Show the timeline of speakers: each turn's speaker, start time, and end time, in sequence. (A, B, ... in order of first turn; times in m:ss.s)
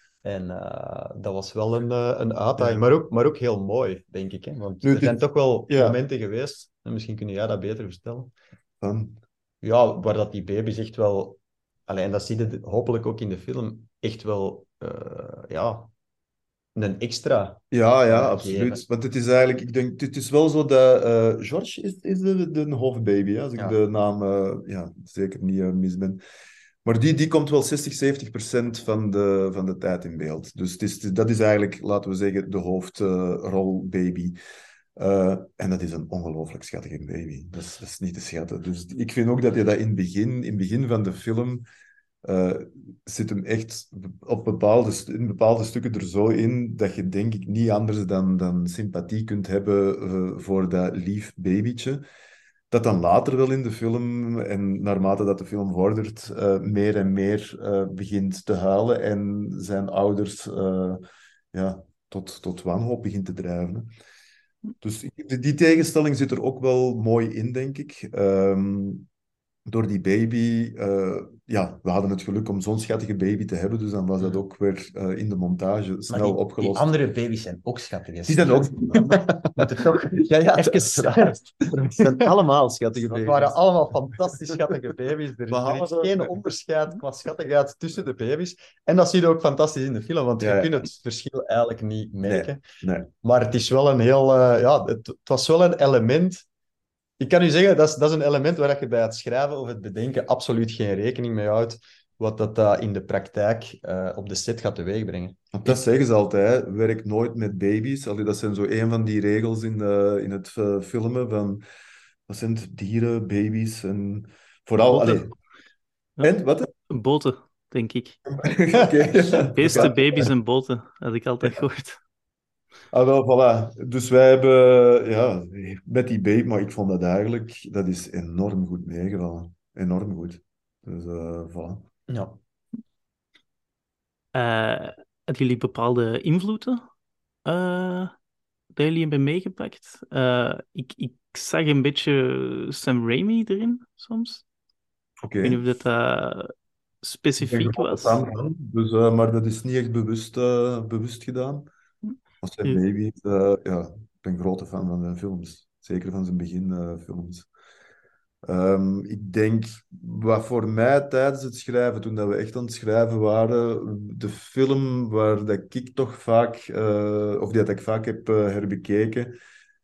0:00.2-0:08.3 A
0:02.6-0:02.9 B
0:04.8-0:05.2 B
0:05.7-0:06.0 B
0:08.8-0:09.2 B
0:09.6-0:15.9 A
0:16.8-0:18.8 A
0:17.7-0:26.2 B
0:26.8-0:34.4 B
0:35.0-0:41.7 B
0:42.2-0:52.0 B
0:52.7-1:01.0 B
1:01.5-1:03.9 B
1:04.8-1:09.1 B
1:09.7-1:16.9 B
1:16.1-1:21.4 A
1:18.3-1:23.6 B
1:22.0-1:22.3 A
1:23.0-1:32.6 A
1:24.5-1:24.8 B
1:25.5-1:26.3 B
1:30.4-1:30.8 B
1:32.2-1:33.1 B
1:33.2-1:36.5 A
1:37.2-1:45.8 A
1:45.5-1:51.6 B
1:52.3-1:55.3 B
1:54.9-1:55.3 C
1:56.2-1:56.7 B
1:56.9-1:58.2 C
1:58.4-2:00.3 B
1:58.8-1:59.9 A
1:59.5-2:02.0 C
2:02.9-2:11.9 B
2:12.1-2:12.4 A
2:14.3-2:16.8 C
2:17.4-2:18.1 C
2:18.8-2:24.4 C
2:25.2-2:25.6 B
2:25.4-2:28.2 C
2:27.4-2:31.7 B
2:32.4-2:37.5 B
2:38.4-2:49.4 B